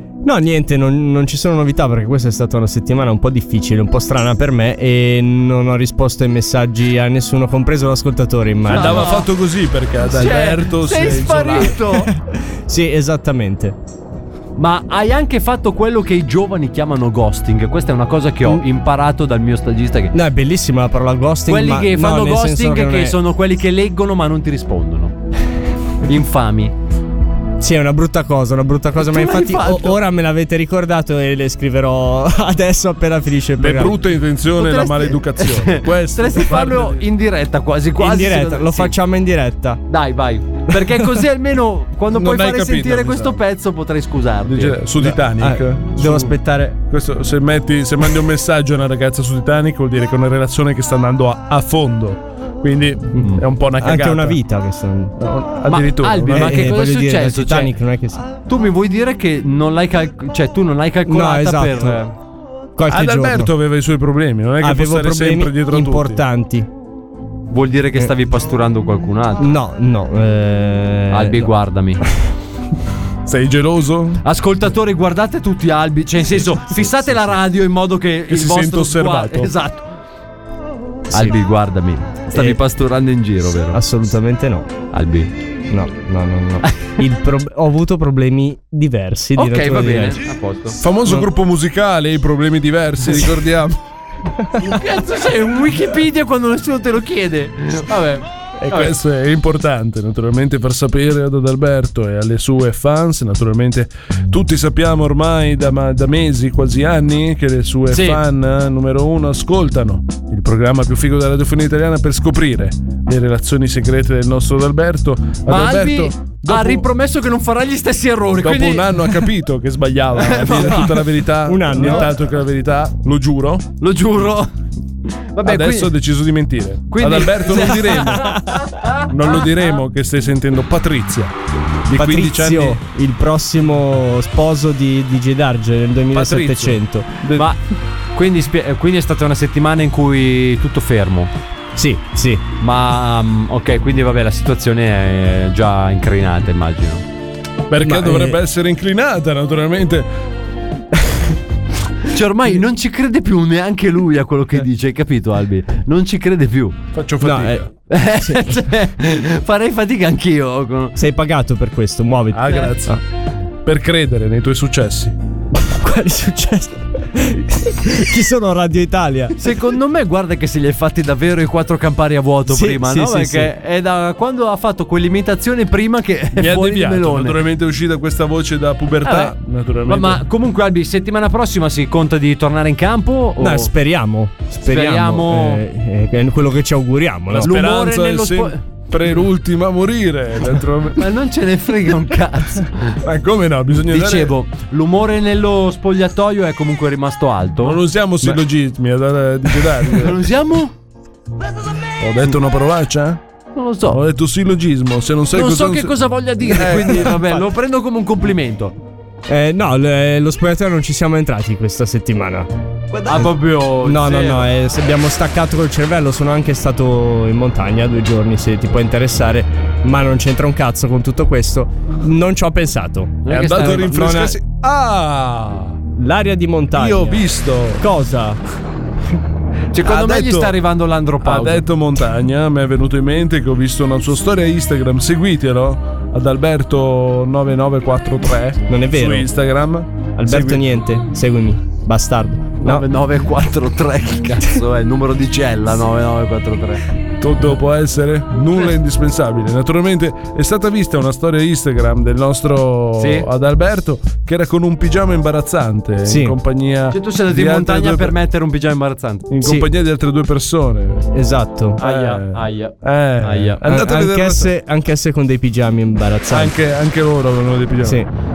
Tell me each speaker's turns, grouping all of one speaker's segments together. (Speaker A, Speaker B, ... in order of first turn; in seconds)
Speaker A: 0.2-9.2, 11.9-13.7, 20.1-23.2, 27.6-34.0, 38.0-39.8, 40.7-41.2, 45.0-46.8, 53.8-55.1, 56.3-58.2, 61.0-62.1, 62.8-63.5, 64.6-66.7, 69.4-71.5, 76.4-77.3, 81.1-81.4, 82.3-82.6, 83.7-84.7, 85.7-90.2, 121.4-122.1, 128.1-128.4, 131.9-137.1, 141.8-142.4, 147.8-148.4, 157.2-157.7, 158.2-158.5, 160.9-163.0, 165.8-169.3, 172.5-173.5, 183.4-187.6, 209.3-212.5, 213.1-224.4, 226.0-228.4, 238.7-239.3, 240.2-242.8, 256.0-256.4, 259.4-259.7, 261.1-261.8, 263.6-266.5, 267.8-268.1
Speaker B: 8.7-9.3, 10.0-12.1, 14.6-20.1, 21.5-25.1, 26.0-26.7, 29.0-30.0, 34.6-38.9, 39.9-44.8, 55.6-57.7, 58.5-62.1, 67.5-69.4, 71.1-72.0, 74.2-79.9, 81.1-83.8, 84.9-85.3, 89.3-90.8, 94.6-98.9, 107.9-108.2, 115.5-119.2, 120.2-121.0, 121.8-122.1, 123.8-124.5, 125.3-125.9, 126.9-129.7, 137.3-137.6, 138.1-141.3, 142.6-147.0, 152.1-156.7, 157.9-160.9, 169.4-177.4, 179.0-179.3, 179.8-183.7, 184.6-185.6, 187.4-188.6, 191.0-193.0, 193.8-197.8, 199.9-200.7, 203.5-204.0, 205.3-208.7, 212.9-214.4, 223.2-223.9, 229.7-231.7, 242.6-246.8, 253.0-253.3, 256.9-259.3, 261.8-263.8
Speaker C: 8.7-11.8, 33.6-37.0, 42.1-43.4, 44.4-54.4, 55.2-56.6, 62.9-66.2, 73.2-74.2, 78.3-79.5, 90.8-93.8, 98.6-116.8, 118.4-123.6, 125.4-128.4, 129.1-132.8, 136.1-137.5, 147.7-150.1, 156.9-157.7, 162.3-163.0, 163.6-165.2, 176.3-180.2, 187.3-191.1, 193.0-194.3, 197.6-200.2, 202.0-203.2, 203.9-207.4, 223.2-225.8, 226.7-227.8, 229.8-230.6, 231.2-240.8, 247.2-258.1, 259.3-261.1, 261.8-264.5, 266.3-268.0